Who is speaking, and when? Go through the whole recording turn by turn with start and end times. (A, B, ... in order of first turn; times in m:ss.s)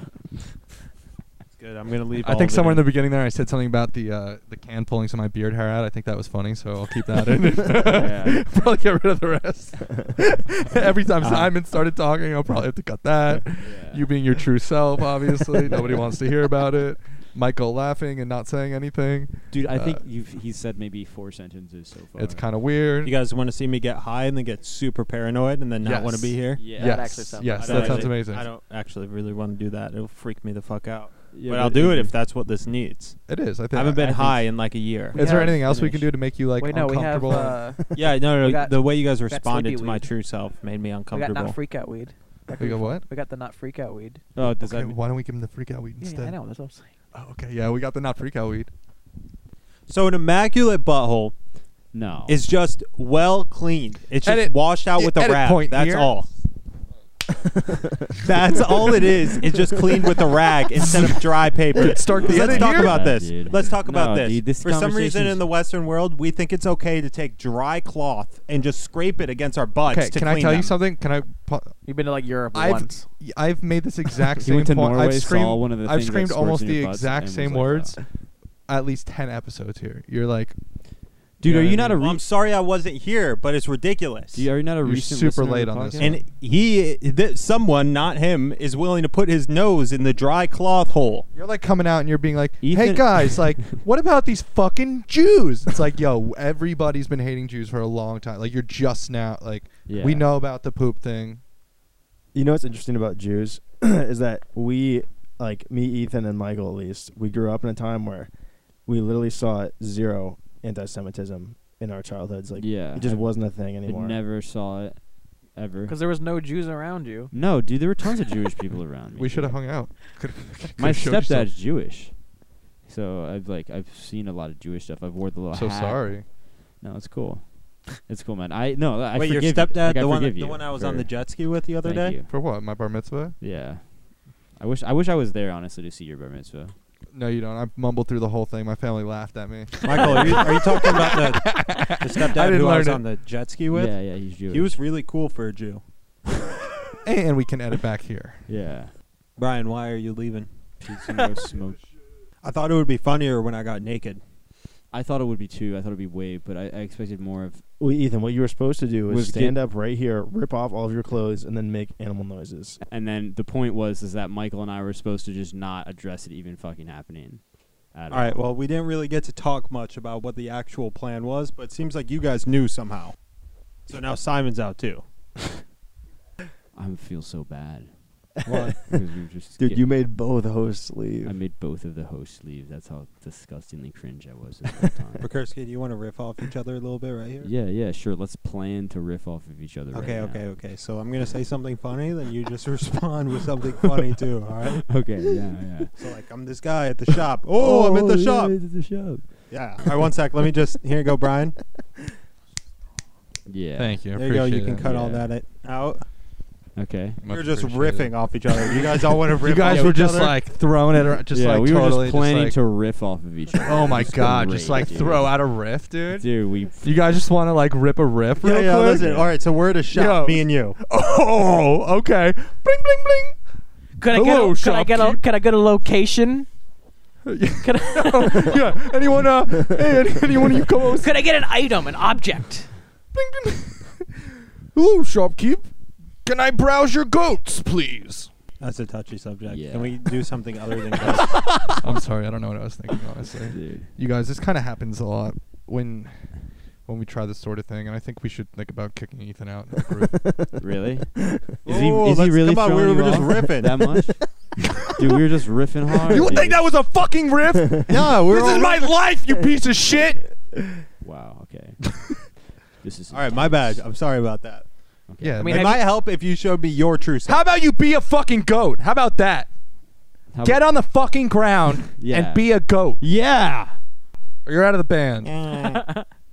0:01.5-0:02.9 A
0:02.2-0:20.0 B
0:07.8-0:08.4 C
0:11.2-0:11.5 A
0:13.6-0:14.1 C
0:15.7-0:16.1 C
0:19.5-0:22.4 C
0:22.2-0:23.1 B
0:23.0-0:26.7 A
0:25.8-0:28.5 B
0:26.6-0:27.4 C
0:26.7-0:28.1 D
0:27.6-0:33.2 A
0:31.3-0:32.1 C
0:33.3-0:34.5 B
0:33.7-0:35.2 A
0:35.1-0:37.6 B
0:35.1-0:35.6 D
0:35.1-0:36.1 C
0:36.6-0:40.1 D
0:37.9-0:41.6 A
0:41.1-0:44.2 D
0:42.6-0:43.0 B
0:44.3-0:45.0 C
0:44.4-0:46.4 B
0:46.0-0:46.9 D
0:47.1-0:48.7 B
0:49.9-0:51.3 A
0:51.9-0:52.4 C
0:52.3-0:56.3 A
0:54.2-0:56.1 B
0:58.2-1:10.8 A
1:00.8-1:01.1 B
1:01.7-1:03.1 B
1:02.2-1:05.5 C
1:09.9-1:11.7 B
1:11.8-1:13.0 D
1:12.5-1:18.0 B
1:14.4-1:18.0 C
1:18.7-1:20.5 B
1:21.4-1:22.2 C
1:21.4-1:22.0 B
1:21.8-1:24.5 A
1:24.3-1:26.2 C
1:24.8-1:26.1 B
1:26.0-1:31.3 A
1:31.3-1:41.4 B
1:32.6-1:33.8 C
1:39.8-1:40.3 C
1:42.3-1:48.3 E
1:48.8-1:54.2 E
1:52.6-1:55.0 C
1:55.5-1:56.0 C
1:55.8-1:57.3 D
1:57.3-1:59.6 C
1:59.2-2:01.5 B
2:00.8-2:02.2 C
2:02.8-2:12.3 C
2:05.5-2:06.2 B
2:09.1-2:12.1 A
2:12.3-2:13.4 B
2:13.4-2:16.7 C
2:17.1-2:23.0 B
2:19.8-2:25.8 A
2:19.9-2:20.6 C
2:23.7-2:24.8 C
2:27.0-2:28.4 B
2:28.5-2:28.9 C
2:29.4-2:30.5 A
2:30.8-2:31.8 C
2:32.4-2:34.2 A
2:34.9-2:37.6 C
2:37.8-2:42.8 E
2:39.1-2:39.6 C
2:42.8-2:48.4 C
2:48.1-2:53.1 A
2:53.8-2:55.0 A
2:56.7-2:57.9 C
2:58.4-2:58.8 E
2:58.4-2:59.8 C
2:58.5-2:58.8 A
2:59.6-3:01.3 E
3:01.2-3:05.2 C
3:05.2-3:07.5 A
3:07.4-3:10.4 C
3:09.9-3:15.0 A
3:14.9-3:15.9 C
3:16.0-3:18.5 A
3:17.5-3:20.1 C
3:19.5-3:21.6 A
3:23.4-3:24.0 C
3:23.8-3:24.9 B
3:24.1-3:26.0 A
3:24.8-3:25.3 C
3:26.8-3:27.2 C
3:27.2-3:28.3 B
3:27.3-3:30.4 A
3:29.4-3:32.6 B
3:29.6-3:29.9 C
3:31.3-3:35.4 C
3:33.6-3:39.3 B
3:36.2-3:36.9 C
3:38.4-3:40.8 A
3:39.0-3:39.3 C
3:39.9-3:43.4 B
3:44.0-3:46.5 D
3:44.1-3:45.2 B
3:47.2-3:51.1 B
3:47.6-3:48.6 D
3:50.9-3:52.7 D
3:53.1-3:55.7 B
3:56.2-3:58.3 B
3:58.6-4:01.8 A
3:59.4-4:00.2 C
4:01.8-4:10.2 B
4:03.5-4:03.9 C
4:10.2-4:10.5 E
4:10.6-4:16.7 C
4:11.6-4:13.9 A
4:16.1-4:20.3 B
4:17.9-4:19.0 A
4:21.0-4:21.9 C
4:22.8-4:23.8 C
4:23.1-4:24.6 A
4:25.1-4:25.4 C
4:25.2-4:25.8 B
4:25.4-4:25.8 D
4:25.4-4:27.4 A
4:27.3-4:29.5 B
4:30.3-4:30.6 C
4:30.4-4:33.0 B
4:32.0-4:32.5 C
4:33.0-4:33.7 C
4:34.4-4:35.3 B
4:35.2-4:35.8 A
4:35.7-4:36.0 D